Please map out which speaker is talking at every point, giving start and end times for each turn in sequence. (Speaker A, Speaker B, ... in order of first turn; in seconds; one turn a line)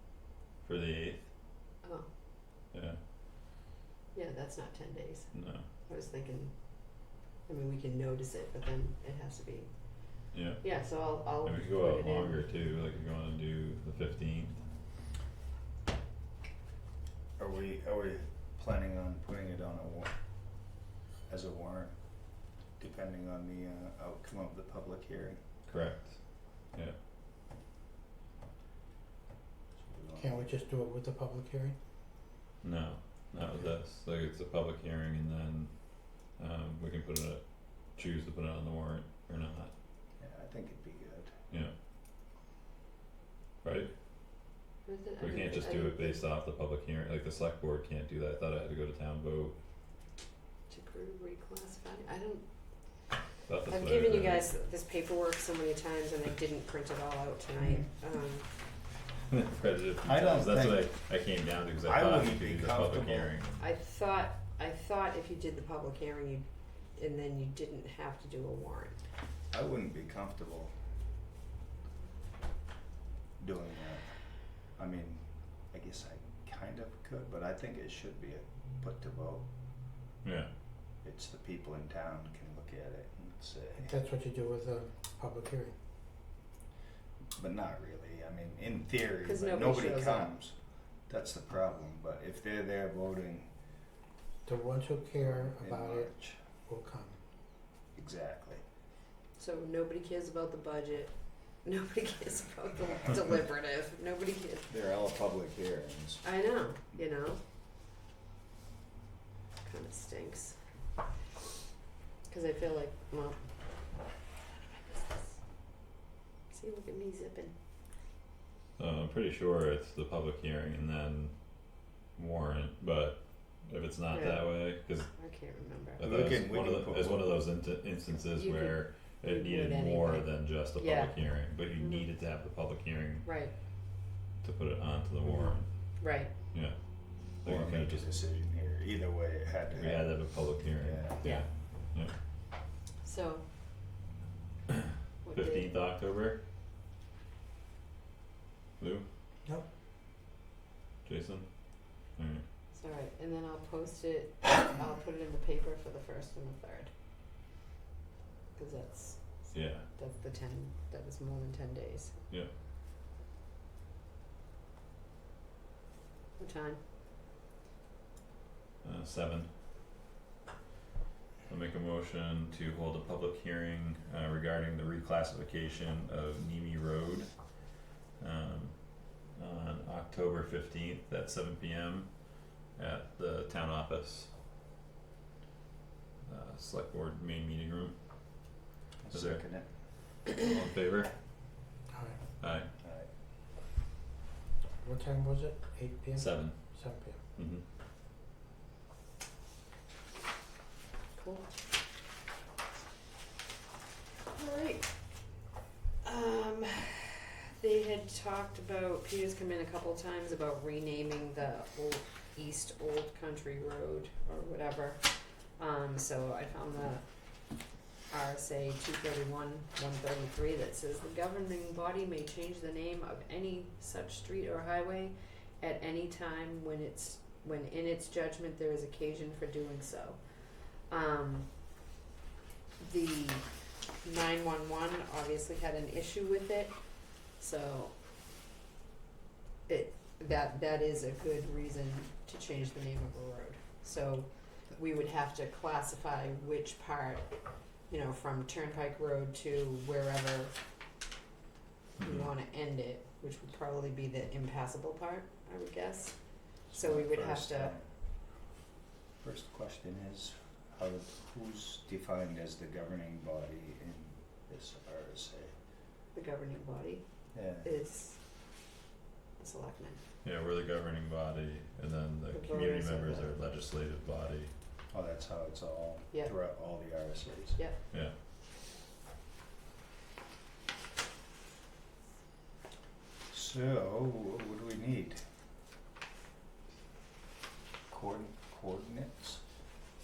Speaker A: 0.6-1.3
Speaker B: 1.8-2.1
Speaker A: 2.7-3.0
Speaker B: 4.1-12.4
Speaker A: 5.3-5.6
Speaker A: 10.3-14.6
Speaker C: 17.4-20.1
Speaker C: 21.3-25.8
Speaker A: 25.7-26.9
Speaker C: 29.8-30.6
Speaker D: 30.1-31.8
Speaker A: 32.6-39.7
Speaker C: 40.2-41.3
Speaker A: 43.6-43.9
Speaker B: 44.8-46.2
Speaker A: 45.2-49.5
Speaker B: 50.7-52.4
Speaker A: 53.5-54.5
Speaker B: 53.7-58.5
Speaker A: 59.3-63.6
Speaker C: 60.0-60.9
Speaker C: 61.8-63.3
Speaker B: 63.6-69.0
Speaker C: 69.5-70.7
Speaker C: 73.4-79.4
Speaker A: 80.2-80.5
Speaker C: 81.0-84.0
Speaker D: 83.8-85.8
Speaker C: 87.3-93.5
Speaker B: 89.2-90.3
Speaker D: 94.5-96.1
Speaker C: 95.2-96.4
Speaker D: 96.6-97.2
Speaker C: 97.9-98.6
Speaker B: 99.4-104.7
Speaker C: 104.7-106.2
Speaker B: 106.2-107.4
Speaker B: 109.6-110.6
Speaker B: 112.3-113.4
Speaker B: 114.7-115.4
Speaker B: 116.5-117.5
Speaker A: 118.8-125.1
Speaker B: 124.1-126.0
Speaker A: 126.0-133.3
Speaker C: 126.0-127.3
Speaker B: 128.3-131.1
Speaker B: 131.8-132.0
Speaker B: 133.2-133.5
Speaker A: 134.4-135.7
Speaker B: 136.0-136.3
Speaker A: 136.5-138.1
Speaker C: 137.4-140.1
Speaker A: 139.8-142.1
Speaker C: 140.8-141.2
Speaker B: 143.0-143.4
Speaker B: 145.2-145.7
Speaker A: 145.3-146.4
Speaker A: 148.8-149.1
Speaker A: 151.0-151.5
Speaker A: 152.1-152.4
Speaker B: 152.7-156.9
Speaker B: 158.6-162.2
Speaker A: 159.5-159.8
Speaker B: 166.4-166.8
Speaker A: 168.8-169.5
Speaker A: 171.5-177.4
Speaker A: 178.2-182.2
Speaker A: 182.7-184.3
Speaker A: 186.2-187.9
Speaker C: 189.0-189.7
Speaker A: 189.1-189.4
Speaker A: 190.2-191.1
Speaker D: 191.9-192.2
Speaker A: 192.4-192.7
Speaker C: 192.8-193.1
Speaker D: 194.8-197.2
Speaker A: 196.2-196.6
Speaker A: 197.3-197.6
Speaker B: 201.2-201.5
Speaker B: 204.3-204.9
Speaker B: 206.0-217.1
Speaker B: 218.1-231.5
Speaker B: 232.8-236.8
Speaker B: 237.3-237.9
Speaker B: 239.7-247.3
Speaker B: 247.9-250.5
Speaker A: 252.0-252.3
Speaker B: 252.0-256.2
Speaker B: 256.7-257.7
Speaker C: 256.7-257.9
Speaker C: 259.2-265.5
Speaker B: 266.1-267.0
Speaker C: 267.3-267.7
Speaker B: 267.6-268.2
Speaker B: 269.4-270.0
Speaker A: 270.2-274.5
Speaker B: 272.3-273.3
Speaker C: 274.9-277.6
Speaker C: 283.3-285.2
Speaker C: 287.9-289.4